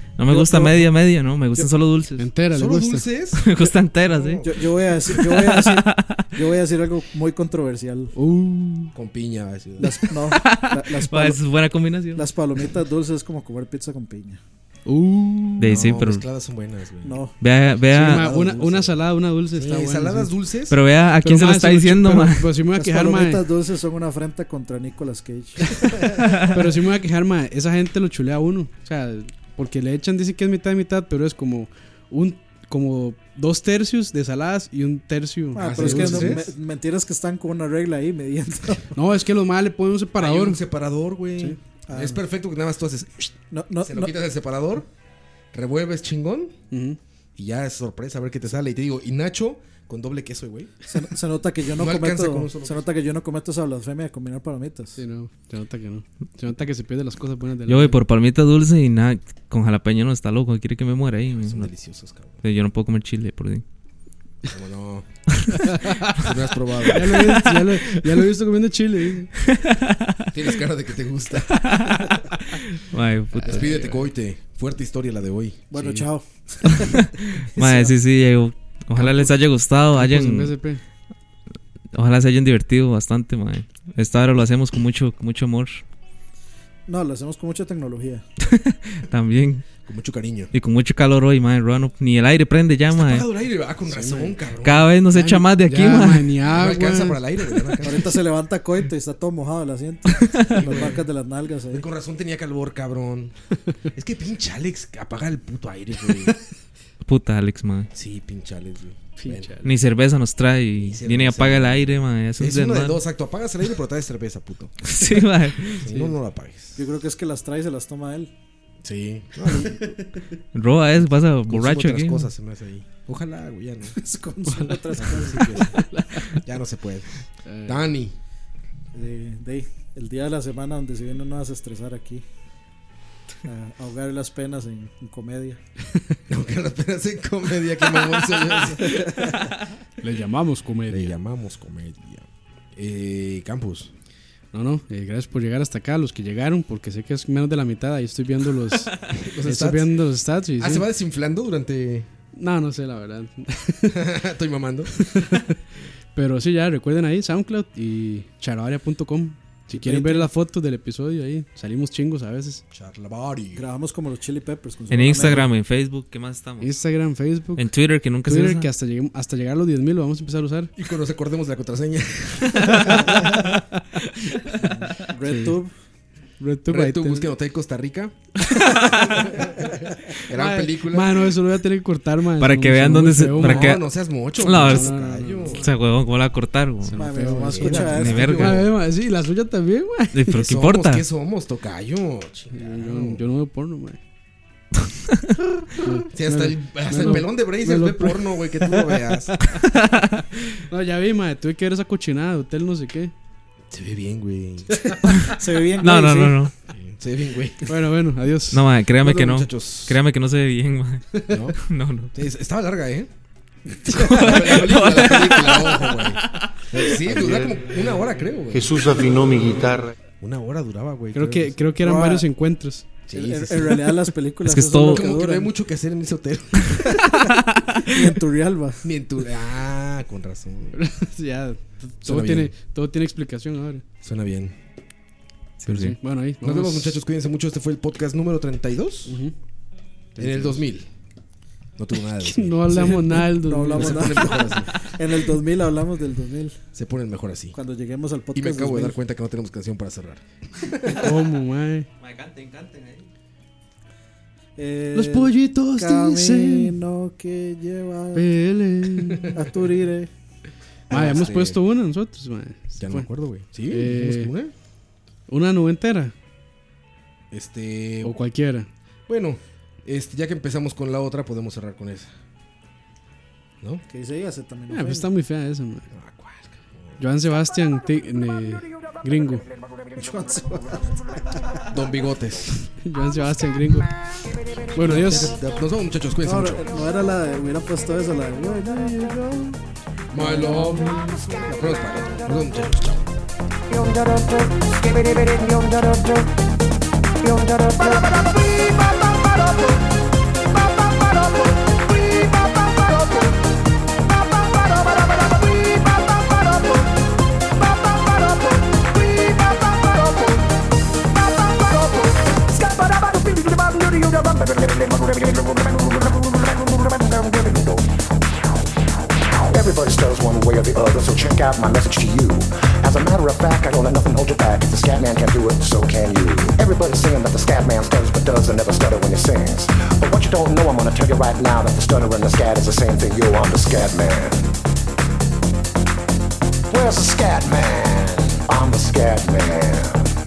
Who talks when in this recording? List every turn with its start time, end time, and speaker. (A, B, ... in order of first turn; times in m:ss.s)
0:00.2-0:02.3 A
0:00.3-0:00.9 B
0:02.2-0:03.1 C
0:02.5-0:03.7 D
0:03.4-0:06.2 A
0:04.2-0:04.5 D
0:04.4-0:08.1 B
0:08.2-0:08.9 C
0:08.9-0:10.1 D
0:09.8-0:11.4 B
0:10.3-0:12.3 A
0:12.1-0:14.4 B
0:14.8-0:15.8 C
0:15.6-0:16.2 A
0:15.7-0:17.2 D
0:17.0-0:17.3 B
0:17.4-0:18.2 A
0:17.9-0:19.0 D
0:17.9-0:20.3 C
0:19.5-0:20.8 D
0:20.7-0:22.5 A
0:21.2-0:23.4 C
0:22.7-0:26.2 B
0:26.5-0:36.4 C
0:35.5-0:39.0 B
0:35.6-0:36.5 D
0:39.0-0:40.6 C
0:40.2-0:44.9 D
0:41.9-0:42.2 B
0:43.5-0:44.1 B
0:45.5-0:46.5 D
0:46.7-0:47.0 C
0:47.4-0:50.7 D
0:50.9-0:55.0 B
0:51.7-0:52.9 D
0:55.0-0:58.0 C
0:57.7-1:01.7 A
1:01.4-1:02.4 D
1:02.4-1:03.6 A
1:04.5-1:05.1 D
1:06.1-1:07.4 D
1:06.9-1:09.3 C
1:07.1-1:08.1 A
1:09.4-1:10.3 A
1:10.3-1:11.7 D
1:11.5-1:13.7 A
1:13.4-1:14.1 C
1:13.4-1:15.6 D
1:15.7-1:17.9 B
1:15.7-1:16.1 C
1:17.6-1:20.5 A
1:19.0-1:19.3 C
1:20.0-1:20.8 C
1:21.9-1:25.8 A
1:26.9-1:28.2 B
1:28.4-1:29.7 A
1:29.8-1:30.5 D
1:30.5-1:33.2 A
1:32.9-1:34.9 D
1:33.9-1:34.4 C
1:34.6-1:36.3 A
1:35.1-1:37.2 C
1:36.4-1:38.2 D
1:37.8-1:41.8 B
1:40.2-1:40.9 A
1:40.4-1:41.0 D
1:41.7-1:43.4 D
1:43.9-1:46.4 D
1:47.0-1:47.9 A
1:47.9-1:49.5 D
1:49.2-1:49.7 C
1:49.6-1:53.0 A
1:50.8-1:54.9 D
1:54.8-1:55.8 A
1:55.6-1:56.1 C
1:55.8-1:56.8 D
1:56.8-1:58.3 B
1:58.8-2:00.1 D
1:59.5-2:00.0 C
2:00.5-2:02.3 A
2:01.5-2:04.0 D
2:04.0-2:05.8 B
2:05.0-2:08.2 D
2:05.6-2:06.2 C
2:07.4-2:07.9 C
2:08.9-2:12.2 B
2:13.4-2:15.6 B
2:16.3-2:19.5 D
2:18.9-2:19.2 B
2:20.0-2:21.2 C
2:20.9-2:23.9 D
2:24.5-2:30.9 C
2:29.1-2:30.0 D
2:30.6-2:32.1 D
2:32.3-2:34.1 C
2:33.9-2:35.2 D
2:35.1-2:35.5 C
2:36.1-2:42.6 C
2:39.7-2:40.3 B
2:42.7-2:43.6 D
2:43.5-2:45.5 B
2:44.9-2:46.7 A
2:46.6-2:47.7 C
2:47.6-2:48.7 A
2:48.2-2:50.7 C
2:50.8-2:53.2 D
2:52.8-2:53.4 C
2:54.6-2:55.7 B
2:55.2-2:55.6 C
2:56.4-2:57.3 C
2:56.7-2:58.2 D
2:58.7-2:59.2 A
2:58.8-3:01.3 D
3:00.2-3:03.8 C
3:02.4-3:04.9 A
3:03.2-3:05.7 D
3:04.4-3:05.7 C
3:05.5-3:07.0 A
3:06.8-3:10.3 C
3:07.0-3:08.6 B
3:07.4-3:08.6 D
3:07.6-3:08.6 A
3:10.1-3:11.0 A
3:10.3-3:13.2 D
3:12.5-3:14.0 C
3:15.8-3:19.7 C
3:16.1-3:19.4 D
3:20.6-3:23.1 C
3:23.7-3:24.9 D
3:24.9-3:26.5 B
3:25.2-3:26.5 A
3:26.7-3:27.6 D
3:27.6-3:28.6 C
3:28.5-3:31.1 A
3:29.0-3:30.0 D
3:31.3-3:31.6 D
3:31.6-3:32.1 A
3:32.1-3:33.1 D
3:33.9-3:38.9 D
3:33.9-3:34.3 B
3:33.9-3:36.6 A
3:37.1-3:37.6 E
3:38.5-3:39.9 E
3:40.2-3:41.6 D
3:41.1-3:42.9 C
3:41.8-3:42.3 B
3:43.1-3:43.8 D
3:43.1-3:45.5 B
3:44.4-3:45.1 A
3:44.8-3:47.2 D
3:47.2-3:47.8 A
3:47.8-3:48.9 B
3:48.8-3:50.8 D
3:50.7-3:53.8 C
3:52.0-3:52.5 D
3:54.0-3:54.5 D
3:55.6-3:56.0 A
3:55.6-3:57.0 C
3:56.4-3:59.2 D
3:59.0-3:59.3 C
4:00.1-4:00.6 C
4:00.2-4:00.9 D
4:01.8-4:03.2 D
4:02.2-4:04.4 C
4:02.7-4:06.6 B
4:03.7-4:04.7 D
4:06.7-4:07.6 D
4:07.5-4:09.0 B
4:08.3-4:11.2 D
4:10.9-4:11.9 C
4:12.0-4:13.1 A
4:14.6-4:18.4 B
4:14.9-4:16.7 C
4:18.1-4:19.4 C
4:19.1-4:19.3 D
4:19.3-4:20.1 B
4:20.9-4:21.6 D
4:20.9-4:23.1 C
4:22.8-4:24.5 D
4:23.7-4:24.3 C
4:25.3-4:26.1 C
4:27.3-4:28.2 D
4:28.0-4:28.7 C
4:29.1-4:32.1 D
4:33.9-4:35.1 B
4:34.7-4:35.8 C
4:35.9-4:37.0 D
4:37.0-4:39.4 C
4:40.0-4:41.7 B
4:41.6-4:42.7 D
4:42.8-4:43.9 C
4:44.7-4:45.4 C
4:44.7-4:46.7 D
4:46.2-4:49.6 B
4:50.1-4:53.1 D
4:50.2-4:50.9 C
5:12.5-5:17.9 F
5:19.5-5:34.5 F
5:36.7-5:40.1 F